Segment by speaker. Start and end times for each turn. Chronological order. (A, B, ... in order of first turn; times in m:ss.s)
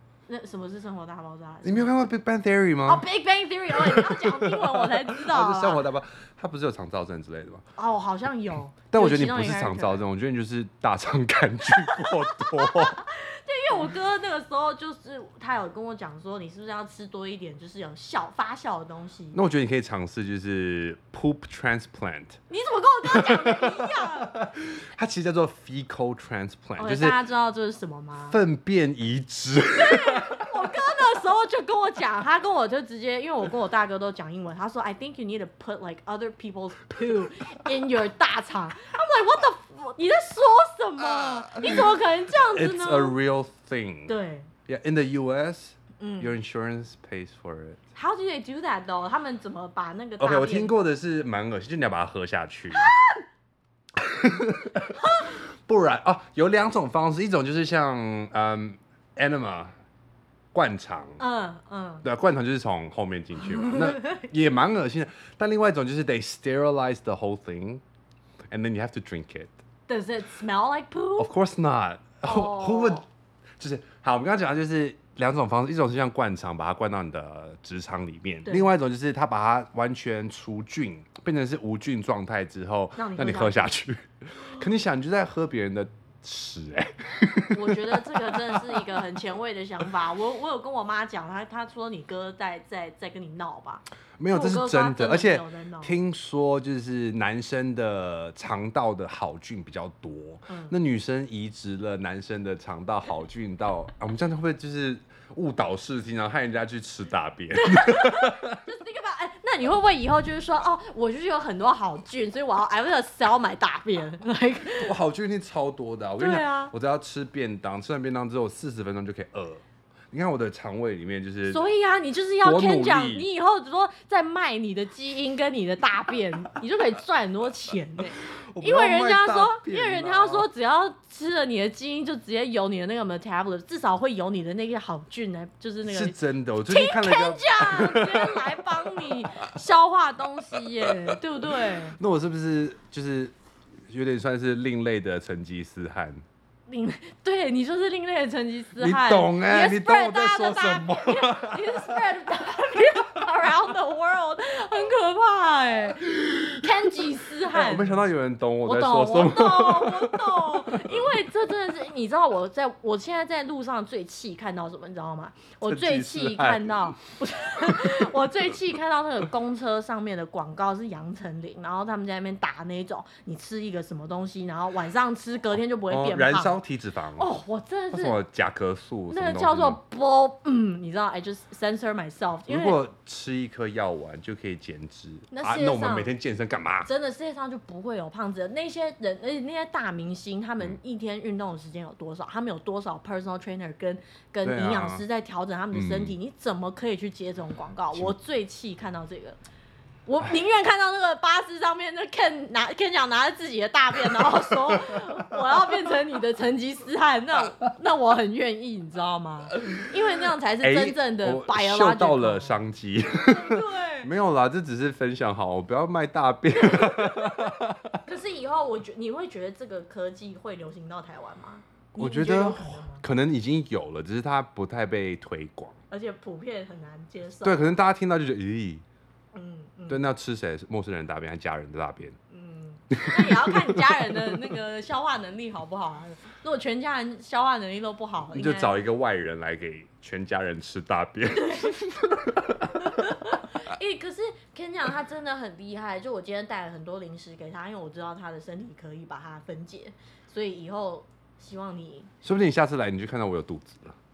0:00.3-0:01.9 A
0:01.6-0:03.1 B
0:02.9-0:05.8 A
0:03.8-0:07.6 B
0:07.8-0:10.0 A
0:08.9-0:13.0 B
0:11.8-0:19.4 A
0:19.3-0:22.4 B
0:22.5-0:24.3 A
0:23.1-0:27.2 B
0:26.8-0:28.4 A
0:28.3-0:30.4 B
0:29.8-0:43.2 A
0:42.5-0:44.1 B
0:44.1-0:44.5 A
0:44.7-0:47.8 B
0:46.0-0:46.3 A
0:48.0-0:50.7 A
0:50.2-0:52.9 B
0:52.7-0:53.2 A
0:54.0-0:59.7 B
1:00.5-1:01.2 B
1:01.2-1:02.0 A
1:02.0-1:07.8 B
1:03.5-1:04.3 A
1:08.5-1:09.5 B
1:09.9-1:11.3 A
1:11.2-1:13.1 B
1:12.2-1:13.0 A
1:13.6-1:28.8 B
1:18.5-1:18.7 A
1:23.0-1:23.7 A
1:27.5-1:36.0 A
1:34.2-1:48.6 B
1:40.5-1:40.8 A
1:47.5-1:55.0 A
1:54.8-2:01.7 B
1:56.2-1:56.7 A
2:01.5-2:22.0 A
2:02.4-2:03.3 B
2:08.5-2:10.5 B
2:15.8-2:19.1 B
2:21.6-2:23.3 B
2:23.9-2:26.2 B
2:26.7-2:38.0 A
2:28.8-2:32.0 B
2:37.5-2:41.1 B
2:38.6-2:56.6 A
2:45.6-2:46.8 B
2:55.9-2:57.3 B
2:57.2-2:58.2 A
2:57.9-2:59.8 B
2:59.1-3:02.8 A
3:02.5-3:06.9 B
3:05.3-3:06.1 A
3:06.8-3:19.4 A
3:14.4-3:15.0 B
3:15.7-3:16.2 B
3:20.1-3:32.6 A
3:30.6-3:38.0 B
3:33.3-3:34.1 A
3:36.6-3:37.6 A
3:38.1-3:43.0 A
3:42.0-3:45.8 B
3:45.9-3:47.7 A
3:47.4-3:48.8 B
3:49.3-3:50.1 A
3:49.9-3:52.2 B
3:52.3-3:58.8 A
3:52.9-3:54.1 B
3:58.3-4:03.0 B
4:01.4-4:02.1 A
4:02.8-4:12.1 A
4:12.2-4:14.0 B